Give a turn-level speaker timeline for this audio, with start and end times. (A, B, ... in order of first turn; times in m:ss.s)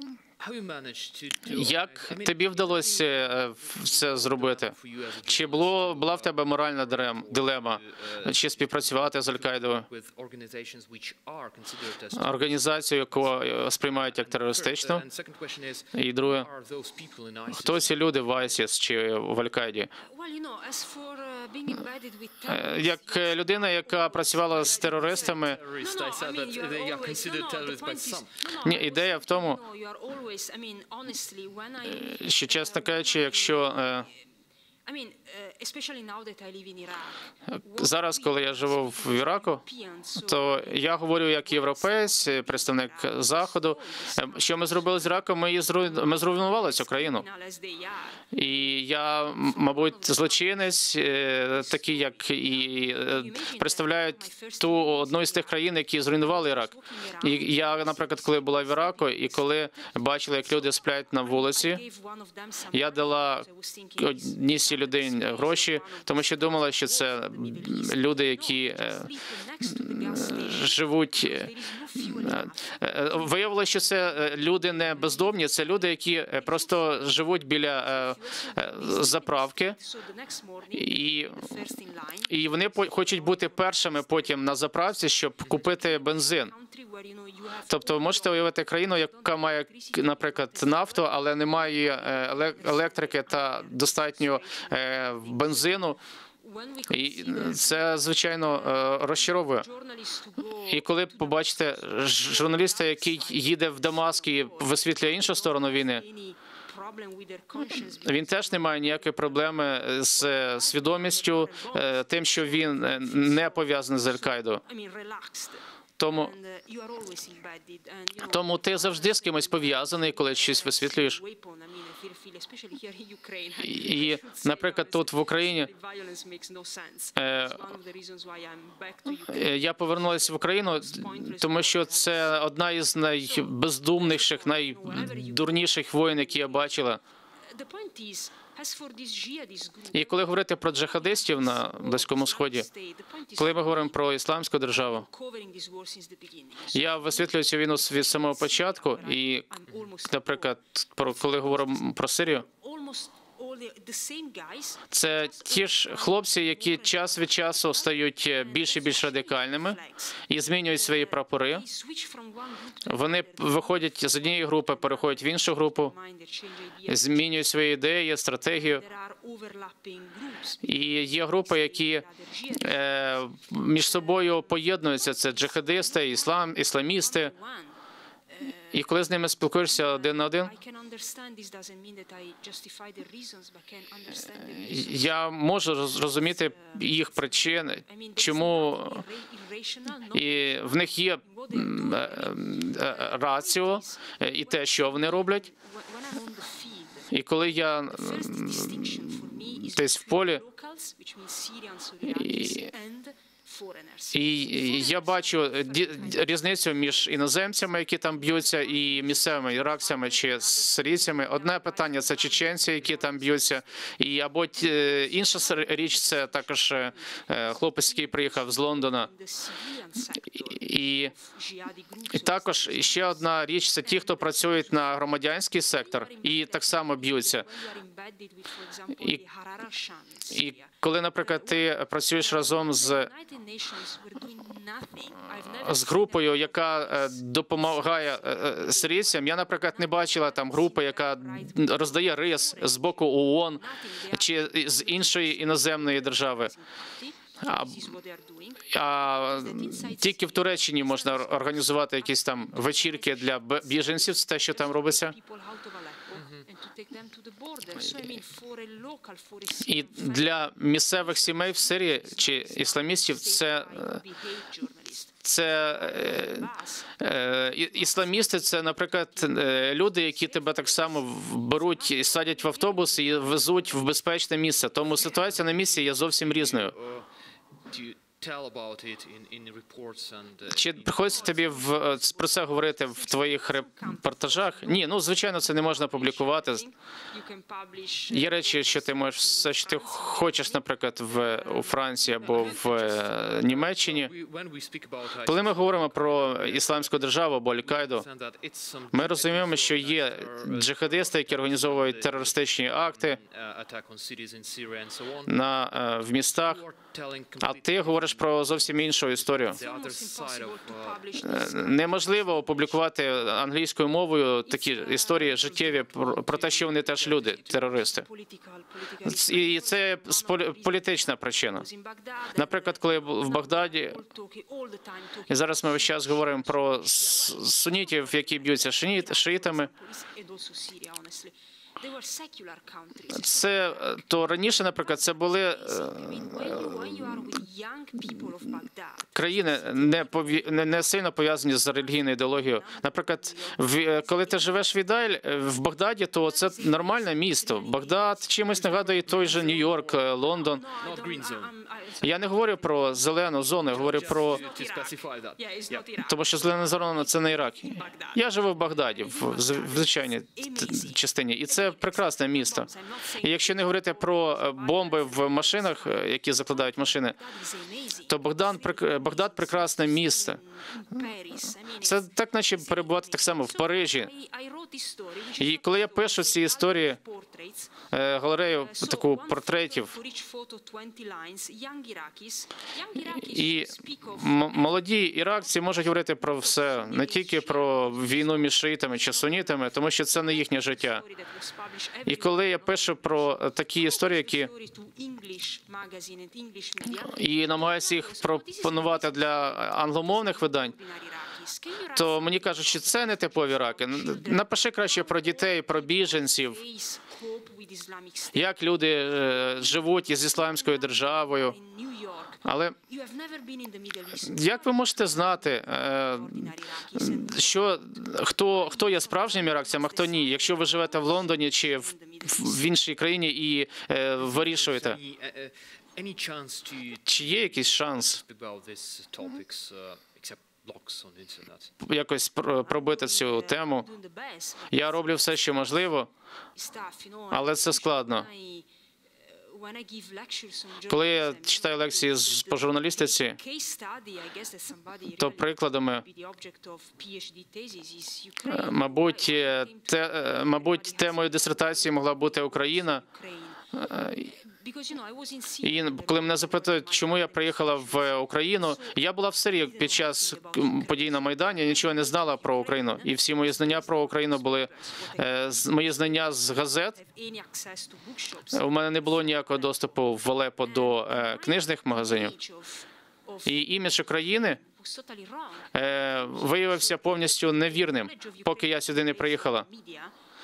0:00.4-0:03.0 A
0:01.4-0:09.9 B
0:03.6-0:12.5 A
0:12.1-0:15.0 B
0:14.1-0:18.6 A
0:15.9-0:16.5 B
0:17.5-0:19.9 B
0:20.0-0:22.9 C
0:22.4-0:25.6 B
0:24.1-0:32.0 C
0:24.8-0:28.4 A
0:28.6-0:29.6 B
0:31.8-0:34.1 B
0:34.8-0:37.2 C
0:37.5-0:39.6 B
0:39.3-0:40.2 C
0:40.1-0:47.2 B
0:47.2-0:48.2 C
0:48.3-1:01.8 B
0:56.7-0:57.5 C
1:01.6-1:04.0 C
1:02.7-1:09.1 B
1:08.5-1:12.0 C
1:09.6-1:19.8 B
1:18.2-1:20.8 C
1:20.7-1:21.5 B
1:21.4-1:22.2 C
1:22.3-1:26.5 B
1:26.0-1:27.7 C
1:27.7-1:36.0 B
1:36.4-1:37.5 C
1:36.9-1:39.7 B
1:39.6-1:40.7 C
1:40.7-1:46.0 B
1:45.4-1:48.0 C
1:47.7-1:54.6 B
1:54.6-1:58.3 C
1:56.0-1:56.3 B
1:58.2-2:01.2 B
2:00.2-2:04.4 C
2:03.6-2:05.7 B
2:05.6-2:09.3 C
2:07.2-2:07.6 B
2:09.2-2:17.0 B
2:10.9-2:11.8 C
2:17.5-2:19.9 C
2:19.9-2:22.7 B
2:22.7-2:23.3 C
2:23.3-2:25.0 B
2:25.0-2:26.9 C
2:26.7-2:32.4 B
2:32.4-2:34.8 C
2:34.9-2:41.6 B
2:41.6-2:43.0 C
2:42.8-2:45.9 B
2:45.9-2:46.9 C
2:46.9-2:48.8 B
2:48.7-2:50.6 C
2:50.6-2:57.3 B
2:52.0-2:52.6 C
2:57.2-2:57.8 C
2:58.3-2:58.8 C
2:58.7-3:00.5 B
3:00.0-3:04.8 C
3:04.4-3:09.0 B
3:07.8-3:10.1 C
3:10.1-3:15.5 B
3:15.5-3:17.1 C
3:17.1-3:20.4 B
3:18.4-3:19.3 C
3:20.1-3:24.2 C
3:22.0-3:22.7 B
3:24.1-3:39.1 B
3:24.9-3:25.4 C
3:38.8-3:40.3 C
3:40.3-3:41.1 B
3:41.2-3:42.1 C
3:42.1-3:47.5 B
3:47.4-3:50.3 C
3:49.0-3:49.2 B
3:50.3-3:53.1 B
3:52.5-3:55.8 C
3:55.3-4:06.5 B
4:03.7-4:04.8 C
4:05.6-4:08.6 C
4:07.4-4:07.9 B
4:08.7-4:15.2 B
4:14.8-4:19.6 C
4:16.1-4:16.4 A
4:19.6-4:24.0 B
4:23.3-4:26.8 C
4:25.2-4:36.7 B
4:36.2-4:37.1 A
4:37.7-4:41.4 A
4:40.5-4:46.7 B
4:41.4-4:43.8 C
4:46.3-4:48.1 C
4:48.1-4:54.1 B
4:52.2-4:57.0 A
4:55.2-4:58.0 B
4:57.6-5:05.4 A
4:58.9-5:03.2 B
5:05.3-5:06.6 B
5:06.4-5:11.1 A
5:07.4-5:09.6 B
5:09.5-5:12.4 C
5:11.2-5:18.0 B
5:14.6-5:15.0 C
5:16.4-5:17.6 A
5:17.7-5:19.6 C
5:19.0-5:21.7 B
5:21.6-5:22.3 C
5:22.3-5:24.0 B
5:23.9-5:25.6 C
5:25.3-5:29.7 B
5:28.8-5:33.4 C
5:33.1-5:37.4 B
5:35.7-5:39.0 C
5:39.1-5:50.6 B
5:43.3-5:43.9 C
5:48.5-5:50.0 A
5:50.3-5:52.7 C
5:50.7-5:51.6 A
5:52.0-5:54.4 B
5:53.7-5:56.2 C
5:53.7-5:55.9 A
5:56.0-6:07.2 B
5:57.7-5:58.2 C
6:02.6-6:03.2 C
6:07.2-6:08.1 C
6:08.1-6:10.4 B
6:10.8-6:11.7 C
6:11.8-6:14.1 B
6:14.1-6:17.7 C
6:15.4-6:17.0 B
6:17.9-6:20.0 B
6:19.6-6:23.2 C
6:23.0-6:31.0 B
6:26.6-6:27.4 C
6:31.0-6:32.2 C
6:32.0-6:34.5 B
6:33.9-6:37.1 C
6:36.9-6:40.7 B
6:38.0-6:39.3 C
6:40.1-6:42.4 C
6:41.9-6:46.6 B
6:45.6-6:48.4 C
6:48.3-6:51.6 B
6:51.4-6:54.7 C
6:52.4-6:52.8 B
6:54.1-7:05.0 B
6:56.3-6:57.3 C
6:59.6-7:02.4 C
7:04.3-7:11.7 A
7:07.0-7:08.2 B
7:11.8-7:13.9 B
7:13.8-7:14.7 C
7:14.7-7:16.1 B
7:16.6-7:18.6 C
7:17.3-7:18.3 B
7:19.3-7:21.1 C
7:20.9-7:23.4 B
7:23.4-7:25.2 C
7:25.2-7:26.0 B
7:26.0-7:28.6 C
7:28.4-7:33.0 B
7:29.2-7:29.7 C
7:33.0-7:33.6 C
7:33.7-7:34.3 B
7:34.4-7:36.0 C
7:35.6-7:47.0 B
7:41.8-7:42.4 C
7:43.6-7:45.2 C
7:46.9-7:48.6 C
7:48.5-7:52.3 B
7:51.4-7:53.4 C
7:53.4-7:54.6 B
7:54.6-7:55.7 C
7:55.7-7:59.6 B
7:59.4-8:00.1 C